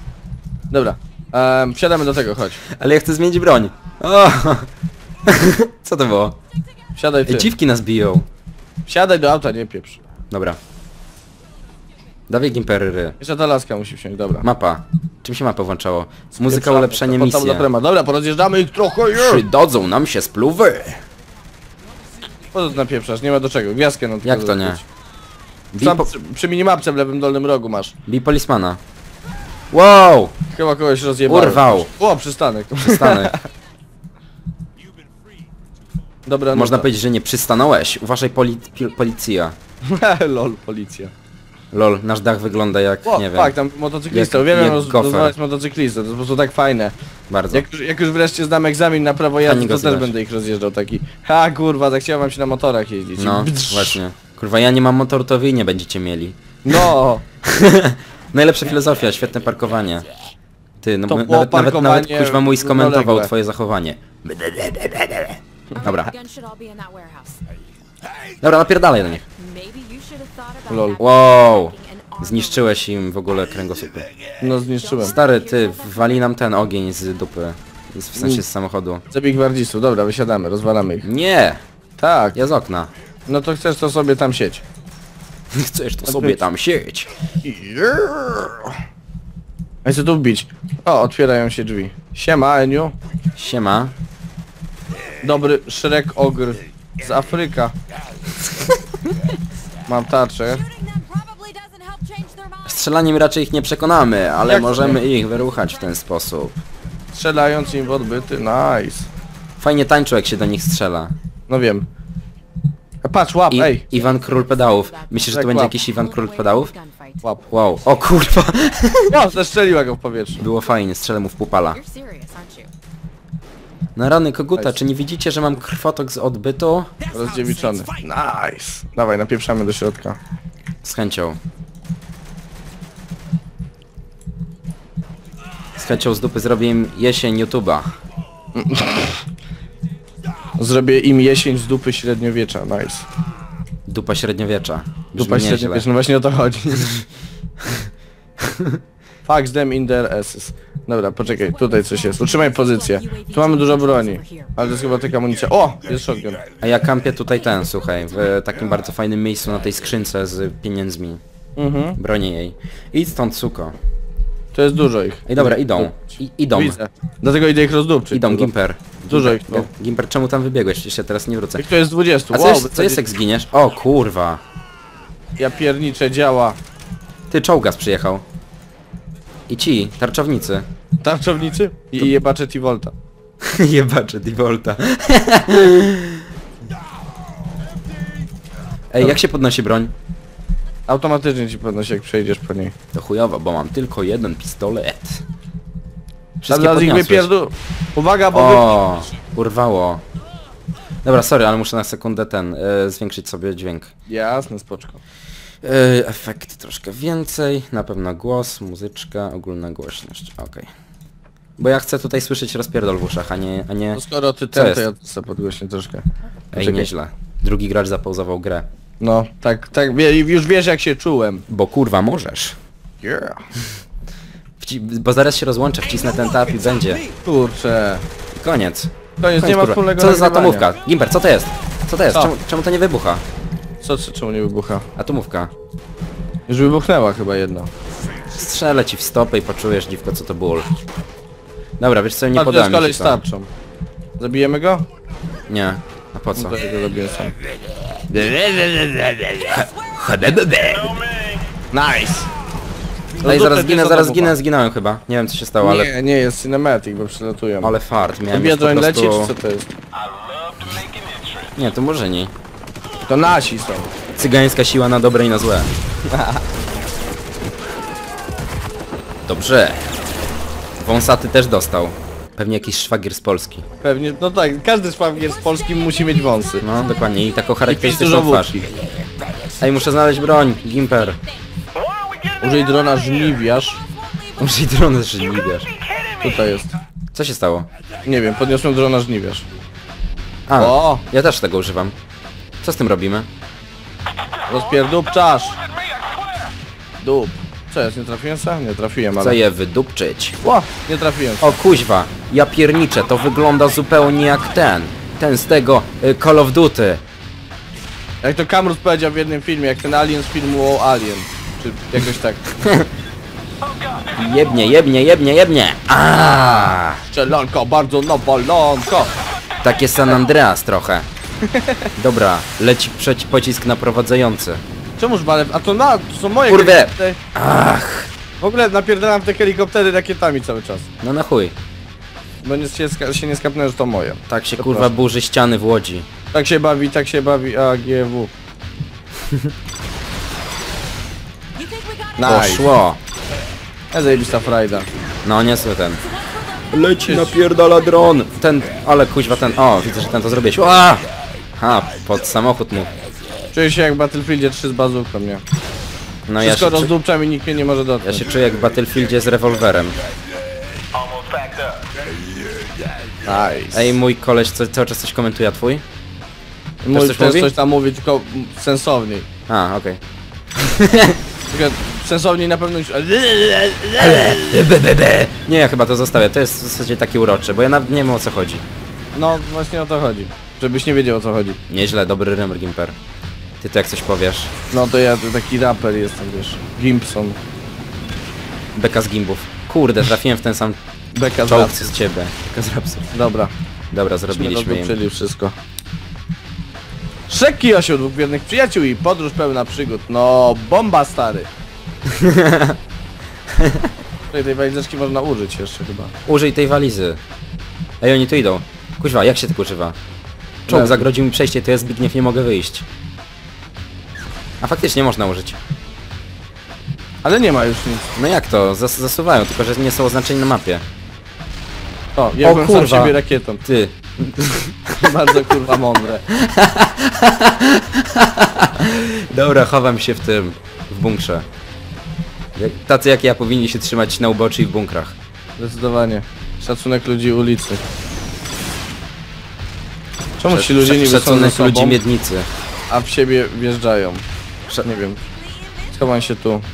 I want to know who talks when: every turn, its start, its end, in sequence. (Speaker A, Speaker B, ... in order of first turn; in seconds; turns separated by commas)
Speaker A: 0.7-2.6, Speaker B: 2.7-4.7, Speaker B: 5.2-6.4, Speaker A: 7.0-7.5, Speaker B: 7.3-8.2, Speaker A: 8.9-10.0, Speaker B: 10.3-10.6, Speaker B: 12.3-13.2, Speaker A: 13.2-14.4, Speaker B: 14.4-17.7, Speaker A: 16.4-19.4, Speaker B: 19.1-21.0, Speaker A: 22.5-24.8, Speaker B: 24.2-24.8, Speaker B: 25.7-26.1, Speaker A: 25.8-27.9, Speaker B: 28.1-28.8, Speaker B: 29.7-30.3, Speaker A: 30.5-33.4, Speaker B: 31.3-31.9, Speaker B: 32.8-33.3, Speaker A: 36.2-36.9, Speaker B: 36.5-39.5, Speaker A: 39.9-41.1, Speaker B: 41.7-43.5, Speaker A: 43.0-46.9, Speaker B: 44.1-45.3, Speaker B: 47.3-47.6, Speaker A: 47.5-54.0, Speaker B: 49.4-50.1, Speaker B: 53.2-56.9, Speaker A: 56.6-57.2, Speaker B: 57.4-60.1, Speaker B: 60.8-66.1, Speaker A: 61.1-63.3, Speaker C: 65.7-67.4, Speaker B: 68.4-69.2, Speaker C: 69.4-72.8, Speaker A: 70.7-71.0, Speaker B: 71.0-74.1, Speaker A: 74.4-75.2, Speaker C: 74.9-76.1, Speaker B: 75.0-79.0, Speaker A: 78.2-78.4, Speaker A: 79.1-81.0, Speaker B: 81.0-81.6, Speaker A: 82.0-82.4, Speaker B: 82.3-82.9, Speaker A: 83.3-84.6, Speaker B: 85.5-87.1, Speaker A: 86.1-86.4, Speaker A: 87.4-88.7, Speaker A: 89.8-92.9, Speaker B: 93.3-93.9, Speaker A: 95.2-97.7, Speaker A: 99.8-100.6, Speaker C: 100.6-102.8, Speaker B: 102.6-106.6, Speaker A: 104.4-105.0, Speaker C: 105.4-105.8, Speaker A: 107.1-109.1, Speaker B: 109.6-111.1, Speaker A: 111.5-111.8, Speaker A: 113.0-113.8, Speaker B: 113.5-116.7, Speaker C: 113.9-117.2, Speaker A: 115.3-115.7, Speaker B: 117.5-119.2, Speaker A: 119.1-120.4, Speaker B: 120.4-121.8, Speaker C: 121.7-122.7, Speaker B: 124.0-126.9, Speaker A: 127.1-130.2, Speaker C: 127.1-127.9, Speaker B: 130.8-131.4, Speaker B: 135.8-137.9, Speaker A: 138.5-139.2, Speaker A: 140.6-143.1, Speaker B: 143.9-145.8, Speaker A: 145.1-147.0, Speaker A: 149.2-156.4, Speaker C: 151.4-154.5, Speaker B: 156.6-161.2, Speaker C: 157.3-158.3, Speaker A: 161.6-162.0, Speaker B: 162.0-163.7, Speaker A: 164.5-165.9, Speaker B: 165.3-166.8, Speaker A: 166.5-168.5, Speaker B: 168.1-171.7, Speaker A: 169.1-169.7, Speaker A: 171.6-173.1, Speaker B: 172.3-174.4, Speaker A: 175.4-176.6, Speaker B: 177.3-178.2, Speaker B: 179.5-180.7, Speaker A: 181.0-182.9, Speaker B: 183.4-186.2, Speaker B: 188.9-189.9, Speaker A: 190.9-192.7, Speaker B: 192.9-195.2, Speaker B: 196.4-197.3, Speaker A: 196.4-198.9, Speaker B: 198.3-200.0, Speaker B: 201.0-203.9, Speaker A: 204.1-205.0, Speaker B: 205.6-210.7, Speaker B: 211.6-214.8, Speaker A: 213.9-216.9, Speaker B: 216.5-218.7, Speaker A: 219.0-221.4, Speaker B: 221.5-222.6, Speaker A: 223.0-223.4, Speaker B: 224.6-227.0, Speaker A: 227.2-228.1, Speaker B: 228.3-233.2, Speaker A: 229.2-230.7, Speaker A: 233.8-234.8, Speaker B: 235.0-235.5, Speaker A: 236.5-237.7, Speaker B: 238.3-240.7, Speaker B: 241.8-243.2, Speaker A: 242.3-243.5, Speaker A: 244.2-244.8, Speaker B: 245.5-246.6, Speaker A: 246.3-247.3, Speaker B: 248.1-251.0, Speaker A: 251.7-252.3, Speaker A: 253.2-254.3, Speaker B: 253.2-255.9, Speaker A: 255.6-257.7, Speaker B: 257.6-259.3, Speaker A: 258.3-259.7, Speaker B: 261.5-262.3, Speaker A: 263.0-263.9, Speaker B: 264.2-265.7, Speaker A: 266.1-266.4, Speaker B: 269.3-269.9, Speaker B: 270.8-273.6, Speaker A: 273.8-276.6, Speaker C: 275.6-276.9, Speaker B: 276.6-278.7, Speaker A: 277.6-278.6, Speaker B: 279.6-281.2, Speaker C: 280.3-281.4, Speaker A: 282.4-283.8, Speaker C: 284.1-284.6, Speaker B: 284.4-285.7, Speaker A: 286.2-286.7, Speaker B: 287.1-287.7, Speaker A: 288.0-289.4, Speaker B: 290.5-291.9, Speaker A: 290.6-291.0, Speaker B: 292.6-293.3, Speaker A: 294.5-295.6, Speaker A: 297.0-299.4, Speaker B: 299.2-300.4, Speaker A: 300.4-301.6, Speaker B: 301.4-307.0, Speaker A: 308.2-312.4, Speaker B: 312.6-312.9, Speaker B: 314.1-317.0, Speaker A: 317.0-319.1, Speaker B: 319.6-321.1, Speaker A: 321.5-321.9, Speaker B: 322.0-324.6, Speaker A: 325.0-327.2, Speaker B: 326.4-328.1, Speaker A: 328.4-330.9, Speaker B: 331.0-331.5, Speaker A: 332.4-334.9, Speaker B: 334.3-336.1, Speaker A: 336.3-338.3, Speaker C: 341.6-342.3, Speaker A: 342.2-342.7, Speaker B: 342.2-343.0, Speaker A: 343.9-344.9, Speaker B: 345.2-346.0, Speaker C: 346.2-346.8, Speaker B: 346.7-351.1, Speaker A: 347.1-347.4, Speaker B: 351.6-352.9, Speaker A: 353.5-355.4, Speaker B: 356.3-356.9, Speaker A: 356.4-358.2, Speaker B: 358.0-360.0, Speaker A: 363.2-364.0, Speaker B: 363.7-365.8, Speaker A: 366.8-369.3, Speaker B: 366.9-367.5, Speaker B: 369.5-370.0, Speaker B: 370.6-371.2, Speaker A: 371.5-374.6, Speaker B: 374.0-378.6, Speaker A: 379.1-381.6, Speaker B: 381.7-382.9, Speaker B: 383.6-384.5, Speaker A: 384.7-387.4, Speaker B: 388.7-390.8, Speaker A: 391.1-391.9, Speaker B: 391.5-393.1, Speaker A: 393.1-393.5, Speaker B: 393.9-394.9, Speaker A: 394.3-395.5, Speaker A: 397.3-401.5, Speaker B: 402.1-402.8, Speaker B: 403.6-403.9, Speaker A: 404.3-406.1, Speaker B: 406.2-407.2, Speaker B: 408.0-409.9, Speaker B: 410.7-412.8, Speaker A: 410.7-411.1, Speaker B: 414.6-415.6, Speaker A: 417.2-418.1, Speaker B: 418.1-420.8, Speaker A: 422.1-423.6, Speaker B: 422.4-425.5, Speaker A: 425.0-426.2, Speaker B: 426.3-431.4, Speaker B: 432.6-435.1, Speaker A: 435.6-437.8, Speaker A: 440.4-442.0, Speaker B: 440.5-442.5, Speaker A: 442.9-444.2, Speaker A: 444.8-445.2, Speaker A: 445.9-446.6